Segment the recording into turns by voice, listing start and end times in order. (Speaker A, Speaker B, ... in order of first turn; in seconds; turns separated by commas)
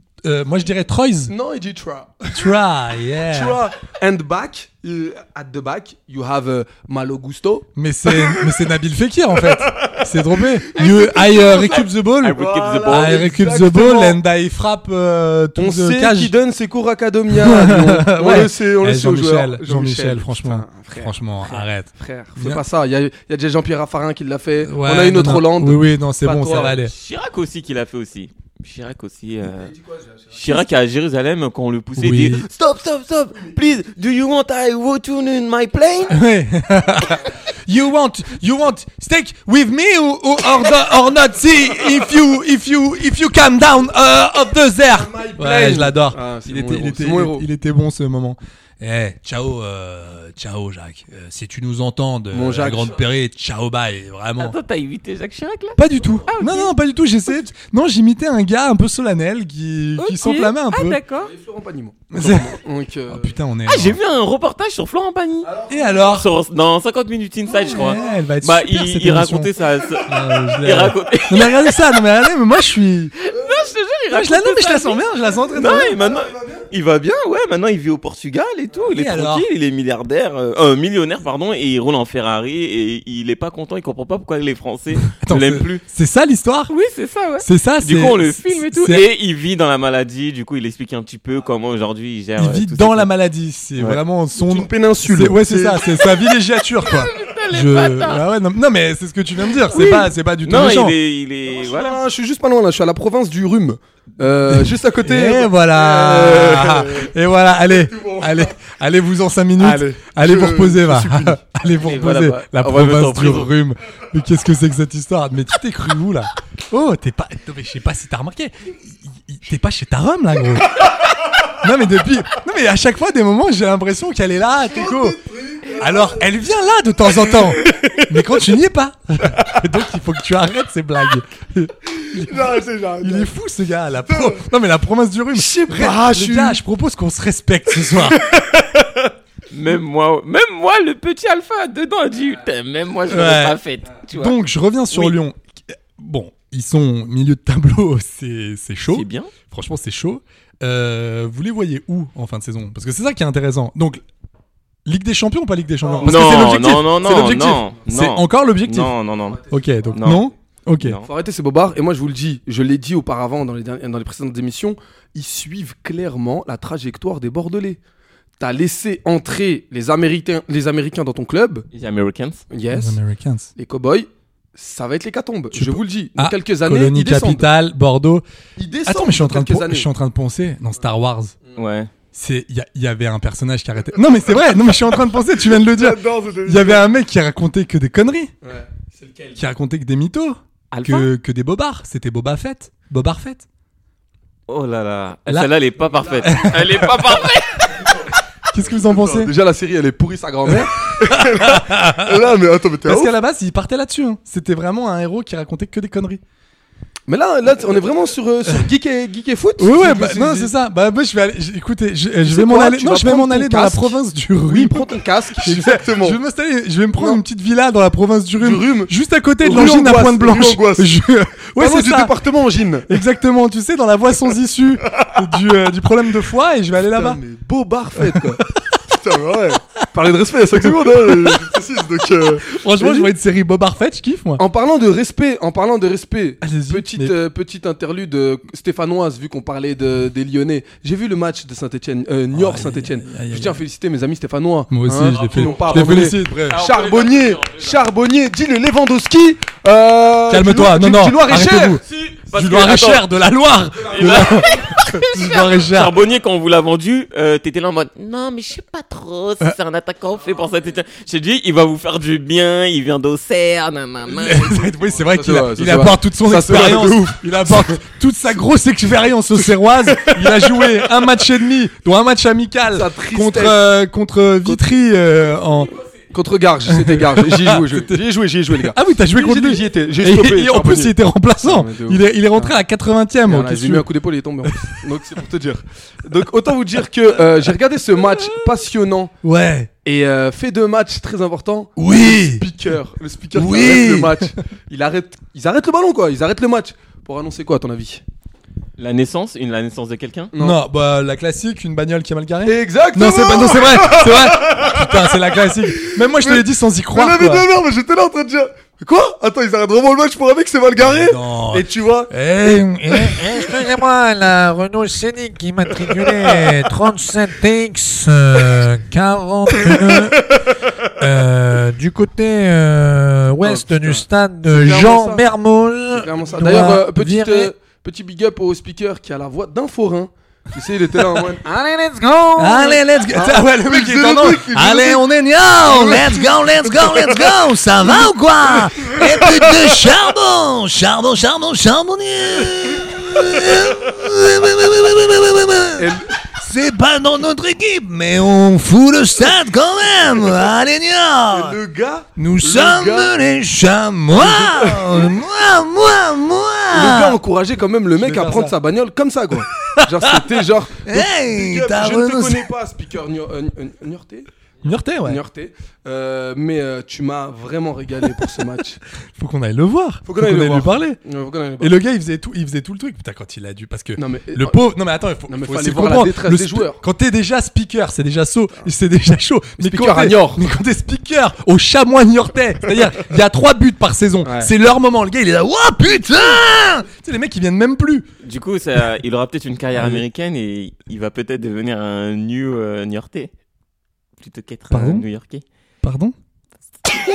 Speaker A: 0.2-1.3, Speaker B: 1.3-2.4, Speaker A: 2.3-3.6, Speaker B: 3.3-8.5, Speaker A: 7.8-16.3, Speaker B: 10.8-14.2, Speaker C: 10.8-13.2, Speaker B: 15.6-26.7, Speaker A: 17.3-22.6, Speaker A: 24.6-26.9, Speaker C: 26.5-29.7, Speaker B: 29.5-30.6, Speaker C: 30.3-36.2, Speaker A: 32.0-32.5, Speaker A: 36.1-54.6, Speaker B: 44.9-47.5, Speaker B: 52.3-53.0, Speaker C: 54.4-56.7, Speaker A: 55.8-61.0, Speaker C: 60.0-61.3, Speaker B: 61.2-63.4, Speaker A: 62.1-64.0, Speaker C: 63.7-71.8, Speaker B: 65.4-66.1, Speaker A: 65.7-66.3, Speaker A: 67.5-69.5, Speaker A: 70.0-73.1, Speaker C: 73.2-75.0, Speaker A: 74.1-76.0, Speaker B: 75.4-76.7, Speaker C: 75.5-85.8, Speaker A: 78.9-79.5, Speaker A: 85.1-86.7, Speaker C: 86.7-93.1, Speaker A: 87.4-89.1, Speaker A: 92.4-101.0, Speaker B: 94.4-95.9, Speaker C: 96.8-98.3, Speaker C: 99.7-102.0, Speaker B: 101.5-107.1, Speaker A: 104.5-120.9, Speaker B: 107.7-108.5, Speaker B: 109.6-111.4, Speaker C: 111.8-113.5, Speaker A: 121.5-125.2, Speaker B: 124.7-126.3, Speaker A: 125.7-138.2, Speaker B: 127.7-128.1, Speaker B: 132.0-133.3, Speaker B: 134.1-134.4, Speaker B: 135.3-136.6, Speaker B: 137.9-138.2, Speaker C: 139.5-144.3, Speaker A: 143.1-143.6, Speaker A: 144.1-154.0, Speaker C: 144.9-145.2, Speaker C: 148.9-149.3, Speaker A: 154.8-158.9, Speaker B: 155.8-157.8, Speaker C: 156.0-160.2, Speaker B: 159.3-160.3, Speaker A: 159.5-161.0, Speaker C: 160.8-161.1, Speaker B: 161.1-167.8, Speaker B: 168.4-171.7, Speaker C: 171.7-172.4, Speaker B: 172.5-173.0, Speaker A: 172.7-173.5, Speaker B: 173.6-177.5, Speaker A: 175.5-178.2, Speaker B: 178.6-179.9, Speaker A: 178.8-181.3, Speaker C: 181.6-181.9, Speaker A: 182.1-188.3, Speaker B: 185.4-186.8, Speaker B: 188.4-189.4, Speaker A: 189.4-193.5, Speaker C: 190.7-191.1, Speaker C: 194.5-197.9, Speaker B: 196.0-196.6, Speaker A: 196.2-197.3, Speaker A: 198.5-199.3, Speaker B: 198.8-203.1, Speaker A: 200.5-202.2, Speaker A: 202.8-206.2, Speaker B: 207.1-210.5, Speaker A: 209.6-222.2, Speaker B: 212.2-216.2, Speaker B: 218.4-220.9, Speaker B: 221.6-222.9, Speaker A: 222.9-227.2, Speaker B: 226.8-233.1, Speaker A: 228.0-228.5, Speaker A: 230.5-231.6, Speaker A: 232.1-234.4, Speaker B: 234.4-251.8, Speaker A: 236.4-237.2, Speaker A: 242.3-243.6, Speaker A: 244.7-246.7, Speaker C: 245.1-247.8, Speaker A: 250.3-256.0, Speaker C: 251.8-253.1, Speaker C: 253.9-264.9, Speaker A: 264.1-275.8, Speaker B: 265.0-267.8, Speaker B: 270.1-270.6, Speaker B: 272.7-273.6, Speaker B: 276.1-282.6, Speaker A: 276.7-283.9, Speaker B: 283.2-289.1, Speaker A: 284.4-284.8, Speaker A: 289.2-289.7, Speaker B: 289.9-298.0, Speaker A: 291.8-292.5, Speaker A: 293.3-294.4, Speaker C: 298.8-300.3, Speaker B: 300.3-300.6, Speaker A: 300.4-307.5, Speaker B: 302.4-312.1, Speaker A: 310.8-313.6, Speaker D: 312.9-320.2, Speaker D: 321.0-327.5, Speaker B: 323.4-325.2, Speaker B: 325.9-331.6, Speaker A: 326.4-326.8, Speaker D: 331.4-332.8, Speaker A: 332.4-351.6, Speaker B: 333.1-339.7, Speaker B: 345.8-346.1, Speaker B: 351.3-353.2, Speaker A: 352.2-357.2, Speaker B: 354.1-355.2, Speaker B: 356.7-364.3, Speaker A: 357.9-358.6, Speaker A: 359.6-362.5, Speaker A: 364.6-365.2, Speaker B: 365.0-368.8, Speaker A: 369.1-371.0, Speaker B: 370.1-371.7, Speaker A: 371.6-388.1, Speaker B: 374.0-374.7, Speaker B: 375.3-376.8, Speaker B: 379.6-380.4, Speaker B: 384.2-384.5, Speaker C: 388.2-393.3, Speaker A: 389.8-390.0, Speaker C: 394.2-395.4, Speaker A: 394.7-395.1, Speaker A: 395.8-396.1